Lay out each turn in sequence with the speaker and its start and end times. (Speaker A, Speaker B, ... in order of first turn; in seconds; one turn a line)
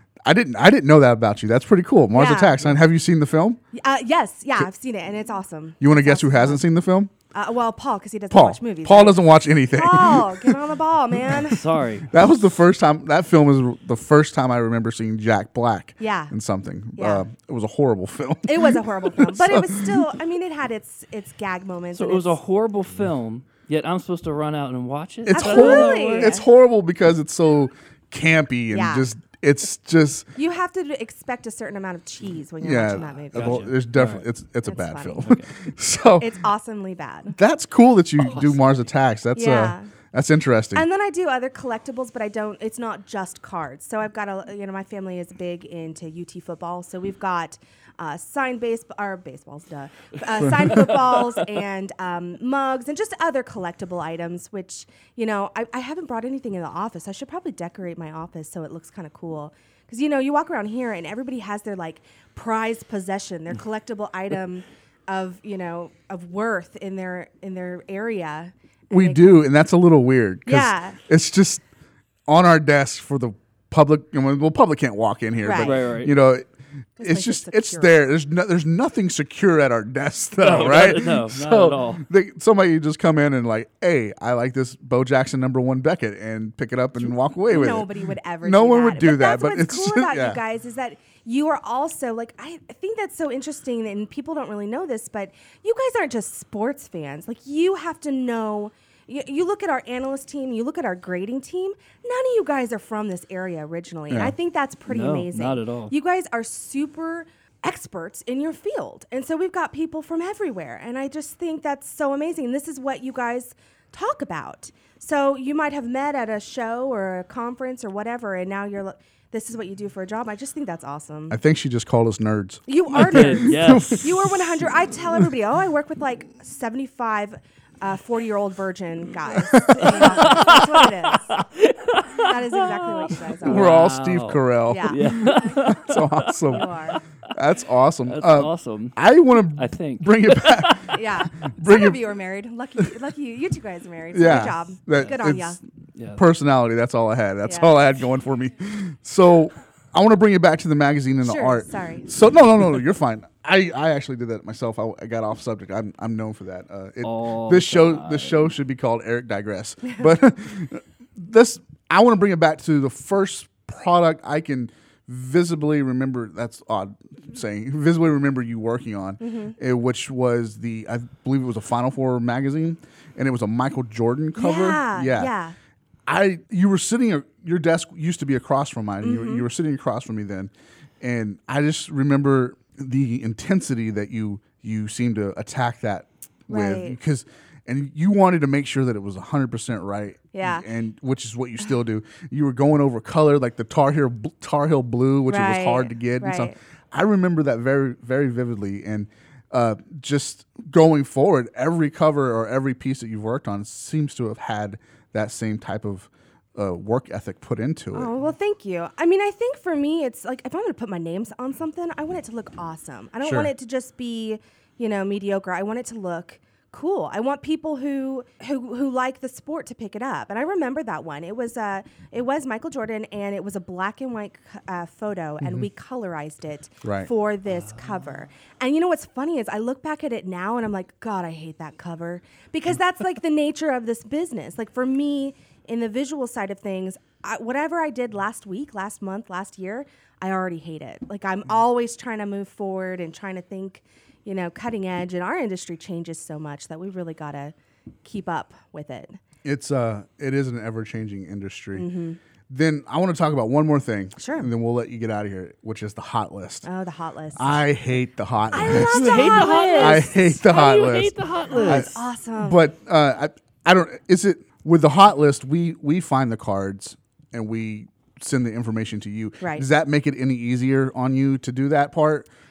Speaker A: 0.2-3.6
Speaker B: 2.1-2.6
Speaker B: 3.7-6.6
Speaker A: 5.8-7.1
Speaker B: 7.3-11.6
Speaker A: 8.3-10.6
Speaker C: 11.4-12.1
Speaker A: 12.1-20.0
Speaker B: 16.0-16.3
Speaker B: 17.0-17.3
Speaker B: 18.5-22.4
Speaker C: 21.9-26.4
Speaker A: 25.3-30.3
Speaker B: 25.3-26.4
Speaker B: 28.7-29.1
Speaker B: 30.4-33.7
Speaker A: 32.6-36.4
Speaker C: 33.3-34.2
Speaker B: 34.7-35.3
Speaker C: 35.2-35.5
Speaker B: 36.2-37.4
Speaker A: 37.4-40.9
Speaker C: 38.2-38.6
Speaker B: 39.4-39.9
Speaker B: 40.8-69.4
Speaker C: 50.7-51.1
Speaker A: 68.9-71.6
Speaker B: 70.5-71.0
Speaker A: 72.3-87.9
Speaker B: 75.4-75.8
Speaker C: 75.5-76.1
Speaker B: 77.0-78.0
Speaker C: 80.4-82.0
Speaker B: 87.4-121.4
Speaker A: 88.4-90.4
Speaker C: 104.9-105.9
Speaker A: 121.3-125.3
Speaker B: 122.7-131.4
Speaker C: 122.9-124.2
Speaker A: 129.4-130.4
Speaker C: 129.8-137.0
Speaker B: 132.2-133.8
Speaker A: 133.4-136.8
Speaker B: 134.7-135.6
Speaker B: 136.5-137.0
Speaker A: 137.3-142.0
Speaker C: 138.1-141.0
Speaker B: 140.9-145.6
Speaker A: 144.1-145.6
Speaker C: 145.9-146.2
Speaker A: 146.2-175.3
Speaker B: 147.4-147.8
Speaker B: 151.2-152.1
Speaker C: 157.0-158.5
Speaker B: 169.2-169.6
Speaker B: 174.4-175.6
Speaker A: 176.1-208.1
Speaker B: 179.0-179.5
Speaker B: 186.5-187.0
Speaker B: 190.3-190.7
Speaker B: 195.3-196.6
Speaker B: 207.9-249.2
Speaker A: 213.2-213.5
Speaker A: 226.8-227.1
Speaker A: 249.4-251.9
Speaker B: 251.7-252.2
Speaker A: 252.5-256.7
Speaker B: 254.2-254.5
Speaker B: 256.6-257.6
Speaker A: 257.4-272.3
Speaker B: 258.5-260.7
Speaker C: 258.6-261.9
Speaker B: 261.5-262.6
Speaker B: 269.4-269.7